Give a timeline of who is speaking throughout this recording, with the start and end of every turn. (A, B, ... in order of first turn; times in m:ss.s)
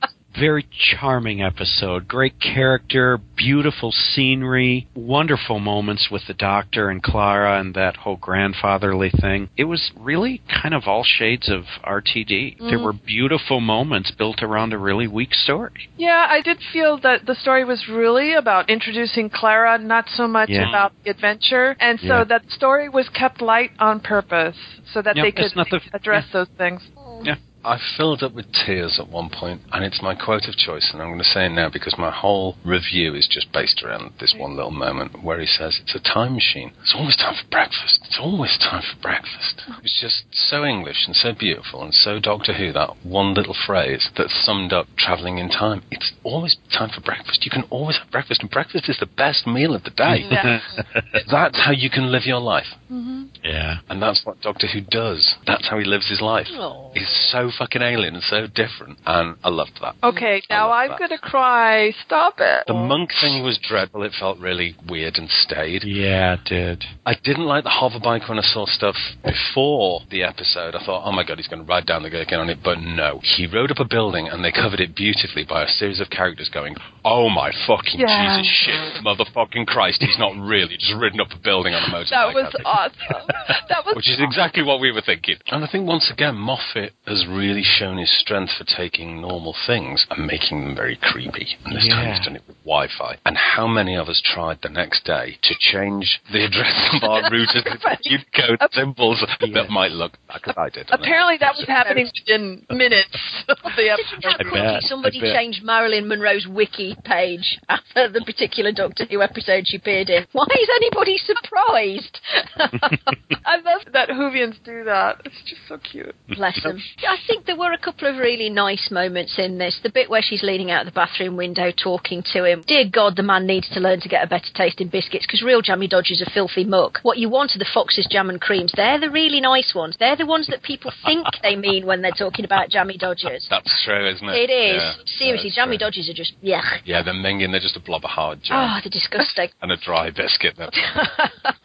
0:00.3-0:15.8 A
0:12.6-0:12.9 B
0:16.0-0:26.9 B
0:20.5-0:20.7 A
0:20.6-0:20.9 C
0:22.0-0:22.2 A
0:25.1-0:26.2 A
0:27.0-0:27.3 D
0:27.6-0:52.8 C
0:50.1-0:51.2 A
0:52.9-0:53.3 B
0:53.4-0:53.8 A
0:53.9-1:01.0 C
0:56.5-0:57.3 D
1:00.0-1:03.3 B
1:02.7-1:05.9 C
1:05.8-1:06.9 A
1:07.0-1:22.8 C
1:17.9-1:18.5 B
1:22.1-1:24.4 B
1:23.9-1:41.6 C
1:31.7-1:32.3 A
1:37.6-1:38.1 D
1:39.4-1:39.7 A
1:40.9-1:44.6 B
1:43.9-1:53.8 D
1:44.3-1:45.4 A
1:53.8-1:56.3 B
1:56.3-2:13.5 D
2:13.5-2:15.8 C
2:14.3-2:16.8 D
2:16.8-2:18.8 C
2:18.5-2:19.5 D
2:19.6-2:21.1 C
2:20.8-2:21.5 D